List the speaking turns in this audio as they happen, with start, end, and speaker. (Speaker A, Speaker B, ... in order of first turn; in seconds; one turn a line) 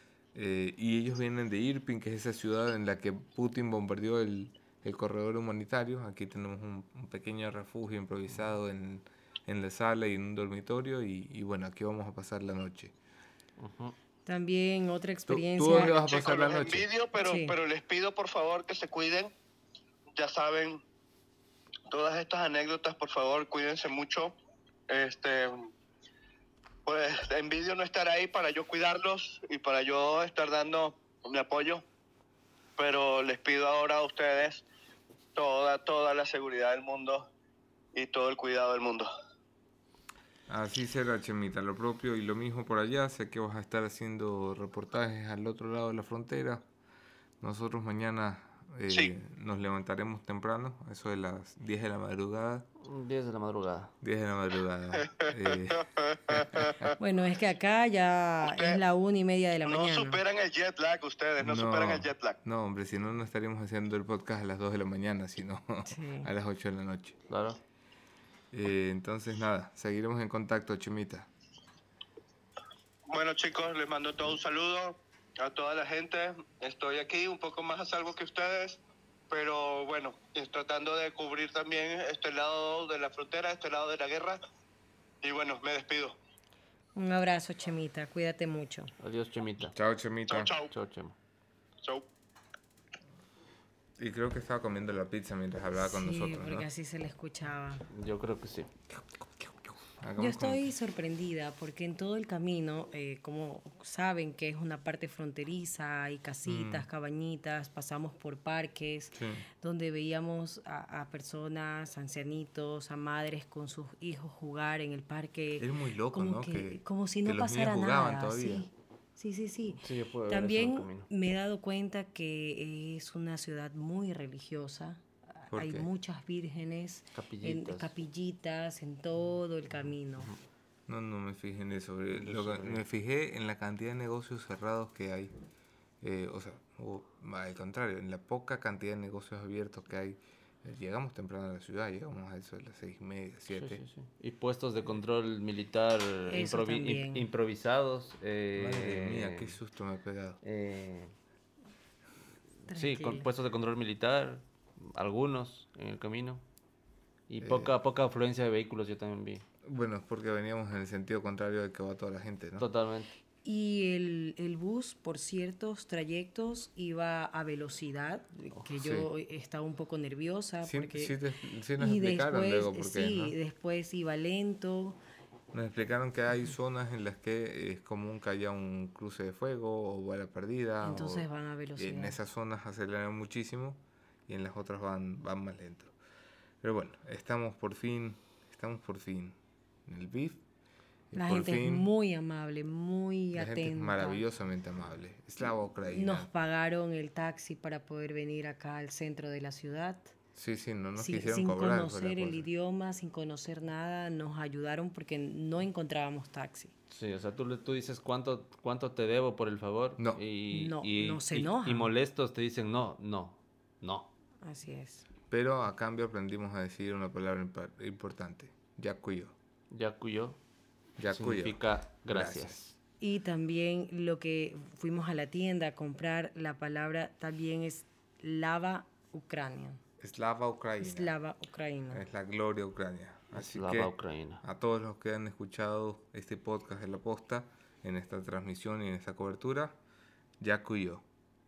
Speaker A: 0.3-12.9
Speaker B: 13.6-13.9
Speaker C: 14.2-16.5
Speaker A: 15.3-16.9
Speaker D: 15.8-19.3
Speaker C: 17.2-17.5
Speaker D: 20.1-20.8
Speaker D: 21.9-24.4
Speaker D: 24.9-25.7
Speaker D: 26.9-31.8
Speaker D: 32.8-34.6
Speaker D: 35.3-37.3
Speaker D: 37.9-39.1
Speaker A: 40.5-46.6
Speaker A: 47.4-52.7
Speaker B: 52.8-53.9
Speaker A: 54.0-56.9
Speaker D: 55.2-56.9
Speaker C: 57.0-60.2
Speaker D: 58.4-58.8
Speaker D: 59.6-62.4
Speaker A: 61.4-67.2
Speaker C: 65.9-66.3
Speaker B: 67.3-67.6
Speaker A: 68.5-71.3
Speaker D: 73.1-84.4
Speaker D: 85.2-86.2
Speaker C: 87.0-88.9
Speaker B: 89.0-89.7
Speaker A: 89.7-90.5
Speaker D: 90.3-90.7
Speaker B: 90.7-91.1
Speaker A: 94.0-96.7
Speaker C: 95.8-97.9
Speaker B: 97.9-98.7
Speaker A: 100.0-100.7
Speaker C: 100.2-130.3
Speaker A: 106.5-106.9
Speaker A: 109.1-109.5
Speaker A: 115.6-118.7
Speaker B: 119.8-121.1
Speaker A: 125.5-125.9
Speaker B: 127.1-127.9
Speaker A: 130.9-135.3
Speaker B: 132.1-132.8
Speaker A: 136.0-143.8
Speaker B: 143.5-149.6
Speaker C: 146.3-147.3
Speaker A: 148.6-150.4
Speaker B: 150.4-151.1
Speaker C: 152.7-153.3
Speaker B: 152.7-156.4
Speaker B: 157.3-159.4
Speaker A: 157.4-157.7
Speaker A: 159.6-162.7
Speaker B: 162.6-163.2
Speaker C: 163.4-171.2
Speaker A: 168.8-169.1
Speaker A: 170.6-173.3
Speaker C: 171.8-175.0
Speaker A: 175.5-185.9
Speaker C: 180.8-182.2
Speaker A: 186.6-190.4
Speaker A: 191.1-191.9
Speaker C: 191.1-194.2
Speaker A: 193.3-196.3
Speaker C: 195.9-200.1
Speaker A: 200.3-202.5
Speaker C: 201.0-206.7
Speaker B: 206.9-214.1
Speaker C: 210.5-211.9
Speaker C: 214.4-215.1
Speaker A: 215.3-219.3
Speaker B: 219.7-220.4
Speaker A: 221.0-222.6
Speaker B: 221.0-222.7
Speaker C: 223.0-229.8
Speaker A: 230.0-231.1
Speaker C: 230.8-232.0
Speaker A: 231.9-239.8
Speaker B: 233.3-234.4
Speaker A: 240.4-241.0